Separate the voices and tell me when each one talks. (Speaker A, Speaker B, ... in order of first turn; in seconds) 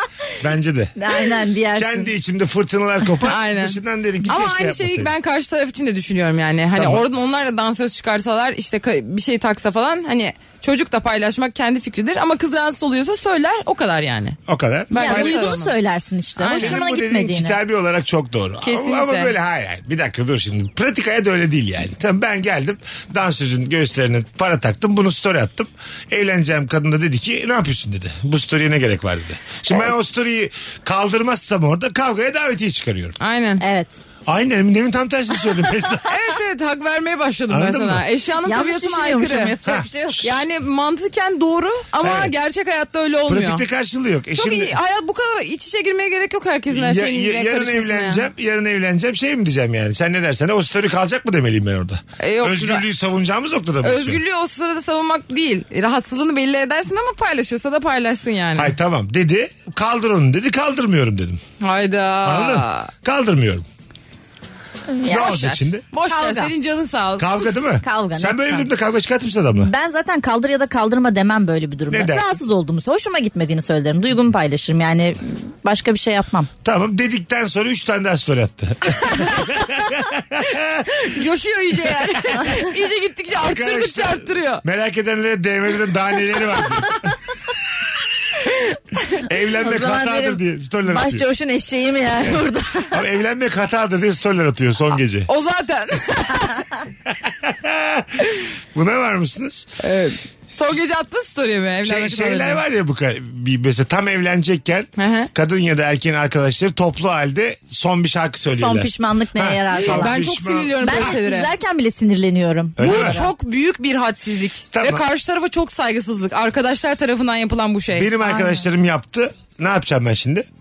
Speaker A: 0.4-0.9, 1.7-5.1, 6.8-7.0, 14.5-15.4, 16.5-33.1, 34.2-36.2, 37.5-38.0, 39.6-40.4, 42.0-42.3, 43.3-44.8, 46.7-54.2, 58.5-61.4, 62.2-63.6, 65.0-65.8, 67.2-69.7, 71.9-72.3, 76.6-81.0, 83.3-86.9, 89.3-91.2, 92.9-95.3, 97.2-98.2, 98.7-99.7, 101.8-111.0, 112.8-113.2, 114.7-115.0, 117.9-120.5
Speaker B: 1.0-2.1, 14.9-17.6, 33.6-34.0, 38.4-40.3, 64.9-65.4, 66.0-66.5, 67.8-68.7, 69.6-76.5, 89.6-93.0, 108.5-110.2, 110.8-113.3
Speaker C: 3.2-14.4, 14.9-15.8, 16.4-16.8, 18.6-19.3, 33.2-33.6, 36.1-39.5, 40.2-43.6, 44.4-48.3, 52.2-52.8, 53.8-58.7, 61.6-62.9, 65.2-67.5, 80.9-84.6, 88.4-88.7, 95.3-96.6, 99.8-102.6, 105.0-105.3, 109.7-111.5, 112.8-118.5